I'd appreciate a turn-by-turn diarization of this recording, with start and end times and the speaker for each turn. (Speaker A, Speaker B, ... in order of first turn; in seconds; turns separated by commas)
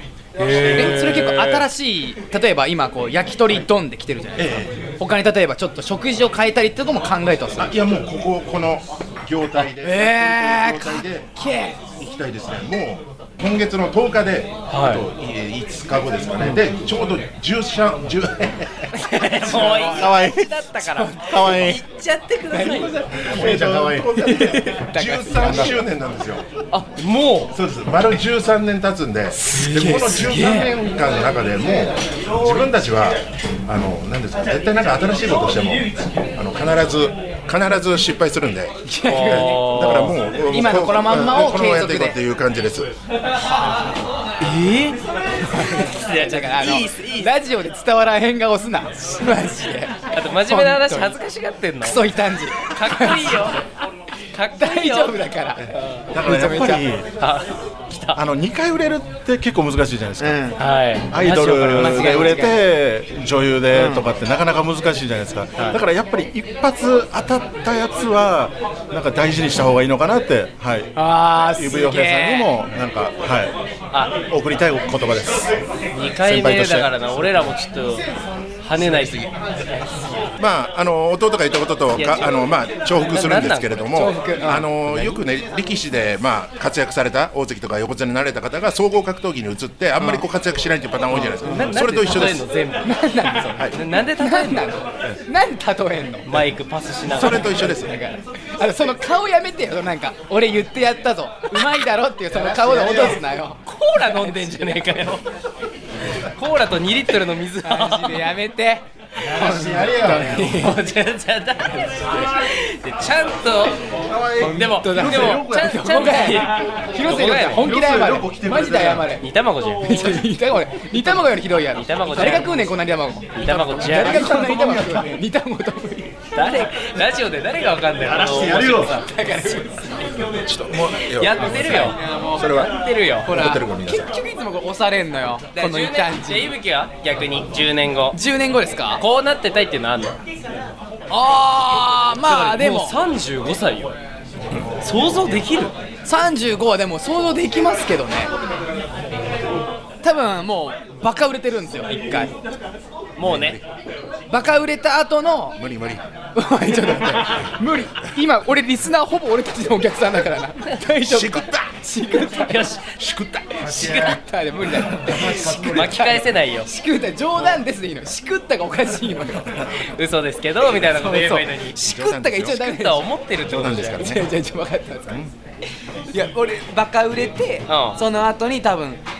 Speaker A: 0.4-1.6, Speaker B: 0.6-0.9, Speaker C: 0.7-7.7, Speaker B: 4.4-4.7, Speaker B: 7.6-11.3, Speaker C: 9.6-11.8, Speaker B: 12.0-18.9, Speaker A: 14.7-15.0, Speaker A: 18.9-23.1, Speaker C: 19.4-20.1, Speaker D: 19.8-20.6, Speaker C: 20.8-21.6, Speaker D: 21.2-21.8, Speaker C: 22.5-23.1, Speaker B: 23.2-26.4, Speaker D: 23.3-24.2, Speaker C: 24.1-25.8, Speaker D: 25.4-25.7, Speaker A: 26.7-27.5, Speaker B: 27.5-42.9, Speaker C: 29.3-30.7, Speaker C: 38.8-39.6, Speaker A: 39.1-40.2, Speaker C: 40.5-42.2, Speaker A: 44.4-45.0, Speaker C: 45.5-50.0, Speaker A: 45.8-47.3, Speaker A: 50.1-53.6, Speaker C: 50.5-51.2, Speaker C: 51.8-53.5, Speaker A: 54.3-55.2, Speaker C: 54.5-56.9, Speaker A: 55.7-56.0, Speaker D: 56.1-57.1, Speaker A: 57.2-58.2, Speaker D: 58.1-60.5, Speaker C: 60.2-60.6, Speaker A: 60.6-62.3, Speaker D: 61.1-70.9, Speaker C: 61.7-62.6, Speaker C: 63.7-64.1, Speaker C: 71.0-72.5, Speaker D: 71.5-73.5, Speaker D: 74.3-75.5, Speaker A: 75.9-78.1, Speaker D: 76.2-77.1, Speaker A: 78.6-79.3, Speaker B: 80.4-92.5, Speaker A: 81.9-82.3, Speaker A: 83.0-84.1, Speaker C: 83.9-84.7, Speaker A: 91.2-92.9, Speaker C: 92.8-96.3, Speaker A: 93.7-94.7, Speaker A: 96.3-97.6, Speaker B: 97.1-97.9, Speaker C: 97.2-104.9, Speaker D: 102.4-103.1, Speaker B: 102.5-103.1, Speaker A: 103.7-105.2, Speaker A: 106.3-108.3, Speaker C: 107.6-110.8, Speaker B: 109.3-110.2, Speaker D: 109.3-110.3, Speaker A: 110.3-113.8, Speaker C: 112.0-112.3, Speaker D: 114.0-115.9, Speaker A: 114.4-117.7, Speaker C: 114.4-119.2, Speaker D: 117.5-119.1, Speaker A: 119.2-120.0, Speaker C: 119.8-126.1, Speaker A: 121.7-122.7, Speaker A: 123.3-124.2, Speaker D: 123.8-125.2, Speaker A: 126.3-129.0, Speaker D: 128.0-128.9, Speaker C: 128.9-130.0, Speaker B: 130.4-132.7, Speaker A: 131.2-133.3, Speaker C: 131.6-132.6, Speaker C: 133.2-136.5, Speaker B: 133.3-134.1, Speaker A: 135.5-138.2, Speaker C: 138.1-139.0, Speaker A: 139.0-140.2, Speaker C: 141.1-142.9, Speaker A: 142.2-143.9, Speaker A: 144.8-145.7, Speaker C: 146.1-148.3, Speaker C: 150.0-152.3, Speaker A: 153.2-153.6, Speaker B: 153.2-153.6, Speaker C: 154.3-155.6, Speaker B: 155.6-156.0, Speaker C: 156.3-162.8, Speaker B: 161.0-161.7, Speaker A: 162.2-163.0, Speaker B: 163.0-164.2, Speaker A: 163.6-164.1, Speaker C: 163.7-169.7, Speaker B: 164.8-166.0, Speaker A: 165.3-166.7, Speaker A: 169.8-171.8, Speaker C: 170.8-173.1, Speaker B: 171.8-172.6, Speaker A: 172.4-174.2, Speaker B: 173.4-174.3, Speaker C: 174.0-175.2, Speaker C: 176.1-179.0, Speaker A: 177.7-178.0